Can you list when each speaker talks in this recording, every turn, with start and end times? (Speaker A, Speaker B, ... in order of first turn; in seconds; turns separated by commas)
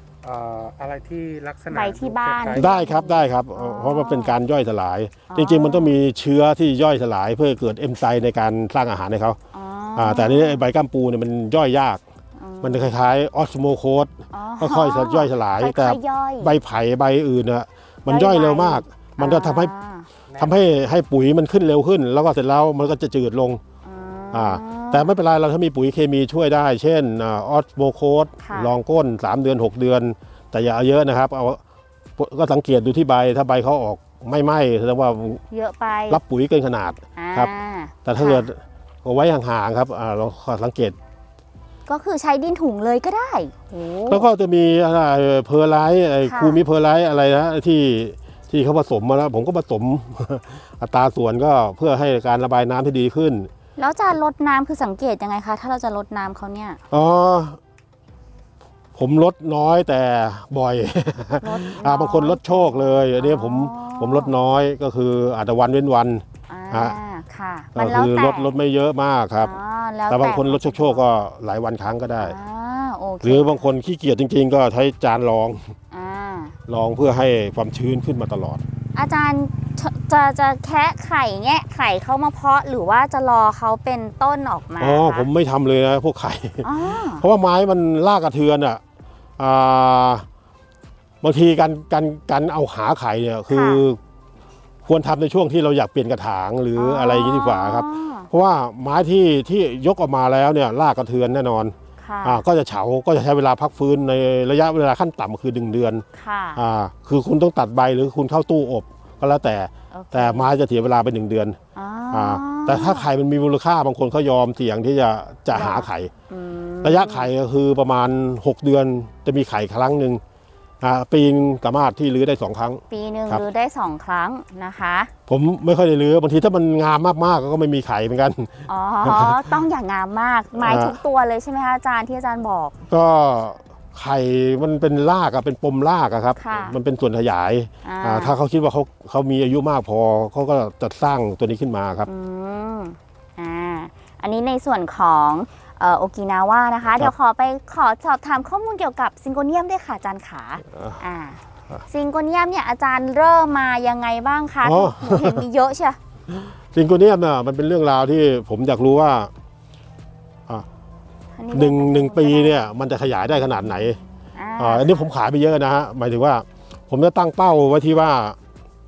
Speaker A: 0.2-2.7, Speaker B: 1.7-4.4, Speaker C: 2.5-9.4, Speaker B: 5.3-6.0, Speaker B: 9.5-10.6, Speaker C: 10.0-12.0, Speaker B: 12.4-12.9, Speaker C: 12.6-19.7, Speaker B: 14.3-16.6, Speaker B: 18.1-20.1, Speaker C: 20.4-23.6, Speaker B: 23.9-25.1, Speaker C: 24.3-31.6, Speaker B: 28.4-28.7, Speaker C: 32.2-35.4, Speaker B: 35.5-36.2, Speaker C: 36.1-37.5, Speaker B: 37.2-38.5, Speaker C: 38.0-41.0, Speaker B: 41.9-44.3, Speaker C: 44.1-53.5, Speaker B: 46.2-46.6, Speaker B: 53.8-56.8, Speaker C: 56.9-57.6, Speaker C: 59.0-67.0, Speaker B: 61.4-64.4, Speaker B: 66.5-68.5, Speaker C: 67.8-69.5, Speaker B: 69.4-71.0, Speaker C: 70.1-72.4, Speaker B: 72.2-73.7, Speaker C: 73.2-75.7, Speaker B: 75.9-76.6, Speaker C: 76.7-78.6, Speaker B: 79.0-85.3, Speaker C: 84.8-88.8, Speaker B: 86.6-87.3, Speaker C: 89.4-90.3, Speaker C: 91.2-94.0, Speaker B: 93.5-93.8, Speaker C: 94.9-106.0, Speaker B: 96.8-98.3, Speaker B: 102.0-102.4, Speaker B: 106.2-106.6, Speaker C: 106.6-111.6, Speaker B: 109.9-110.5, Speaker B: 111.8-113.1, Speaker C: 112.1-116.1, Speaker B: 115.5-117.3, Speaker C: 116.8-120.2, Speaker C: 120.8-123.5, Speaker B: 122.9-125.1, Speaker C: 125.3-129.5, Speaker B: 128.7-132.8, Speaker C: 130.6-131.0, Speaker C: 132.9-142.1, Speaker B: 136.4-136.8, Speaker B: 137.8-138.3, Speaker B: 142.1-156.0, Speaker C: 154.6-155.4, Speaker C: 156.3-159.3, Speaker B: 161.3-162.6, Speaker C: 161.5-164.0, Speaker B: 164.3-165.1, Speaker C: 164.6-168.4